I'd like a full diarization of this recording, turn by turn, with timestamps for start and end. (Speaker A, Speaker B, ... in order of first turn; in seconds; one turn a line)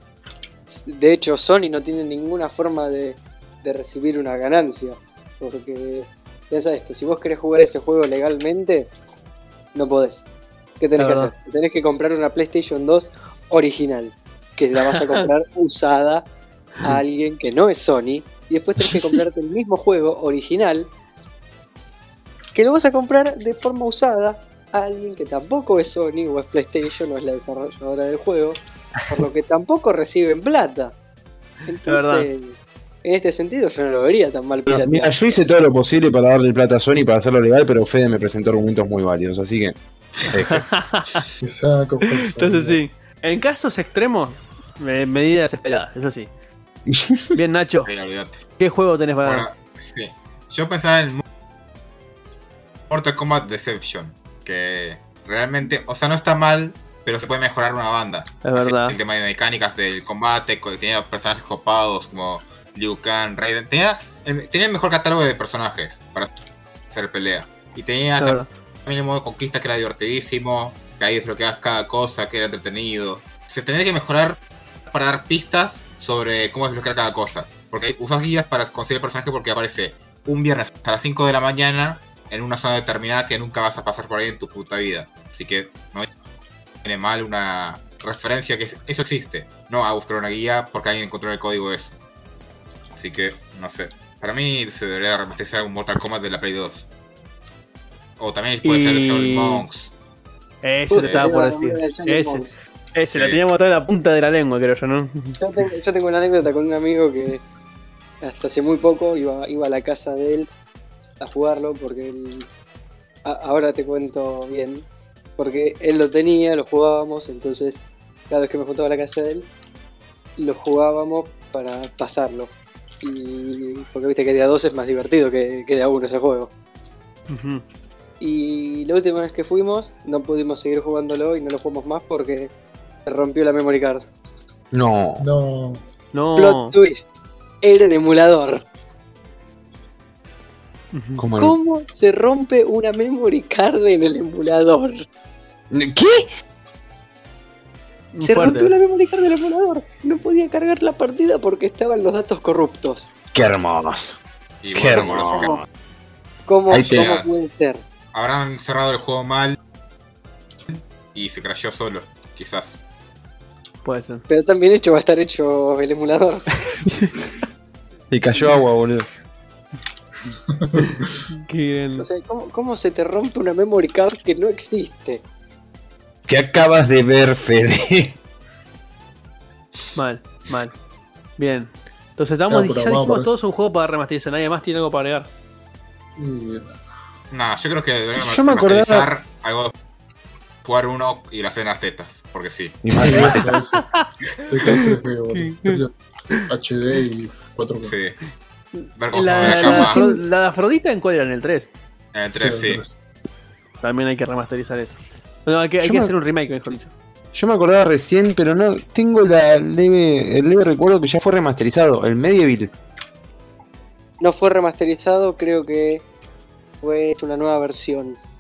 Speaker A: 0.7-8.9
Speaker A: 9.7-10.2
Speaker A: 10.8-16.3
Speaker B: 11.0-11.3
Speaker B: 14.9-15.2
Speaker A: 16.8-20.9
Speaker A: 22.6-28.6
Speaker A: 29.1-31.0
Speaker A: 31.7-35.3
Speaker B: 31.9-32.3
Speaker C: 34.7-39.8
Speaker C: 40.3-40.6
Speaker B: 40.3-41.2
Speaker D: 41.4-42.8
Speaker B: 42.4-46.3
Speaker C: 46.9-47.4
Speaker B: 47.3-47.9
Speaker E: 47.9-48.4
Speaker B: 48.6-49.5
Speaker E: 49.2-51.2
Speaker E: 52.9-66.3
Speaker B: 58.4-59.0
Speaker E: 66.9-86.1
Speaker B: 68.2-68.5
Speaker E: 86.8-92.0
Speaker E: 92.9-96.9
Speaker E: 98.2-99.9
Speaker B: 98.6-99.7
Speaker B: 100.6-102.4
Speaker A: 100.9-102.6
Speaker E: 101.0-101.3
Speaker B: 103.0-105.4
Speaker E: 103.1-103.4
Speaker A: 105.4-107.4
Speaker A: 108.2-110.5
Speaker A: 111.2-112.5
Speaker A: 113.2-114.8
Speaker A: 115.4-119.5
Speaker A: 120.4-126.5
Speaker B: 127.3-127.6
Speaker A: 128.2-132.5
Speaker A: 133.1-134.1
Speaker C: 134.7-135.3
Speaker D: 135.2-135.9
Speaker B: 136.1-136.8
Speaker A: 136.4-137.1
Speaker A: 137.6-138.7
Speaker B: 140.9-141.2
Speaker C: 141.2-141.6
Speaker A: 141.4-145.1
Speaker C: 145.7-146.3
Speaker B: 148.1-148.7
Speaker A: 148.2-153.1
Speaker C: 153.3-154.2
Speaker E: 154.6-155.6
Speaker C: 154.7-155.6
Speaker A: 156.5-157.8
Speaker C: 156.7-157.1
Speaker E: 156.7-157.3
Speaker E: 158.1-159.6
Speaker E: 161.1-162.8
Speaker B: 163.8-164.3
Speaker A: 164.3-166.5
Speaker B: 166.8-167.1
Speaker C: 168.1-169.1
Speaker D: 170.7-171.1
Speaker B: 171.4-172.1
Speaker A: 172.0-175.2
Speaker C: 176.3-178.2
Speaker B: 180.0-180.7
Speaker B: 181.4-185.3
Speaker D: 182.5-183.4
Speaker D: 186.2-186.8
Speaker E: 187.3-189.7
Speaker C: 188.2-189.1
Speaker E: 190.6-192.8
Speaker C: 192.8-193.5
Speaker D: 192.9-193.8
Speaker D: 194.4-195.9
Speaker B: 194.7-195.8
Speaker D: 196.5-198.0
Speaker E: 197.8-198.2
Speaker B: 198.8-201.7
Speaker E: 198.9-200.0
Speaker C: 199.5-200.1
Speaker E: 202.1-202.8
Speaker D: 202.3-202.9
Speaker B: 203.8-206.9
Speaker C: 205.8-206.1
Speaker C: 207.3-212.7
Speaker A: 214.2-216.1
Speaker A: 216.8-218.2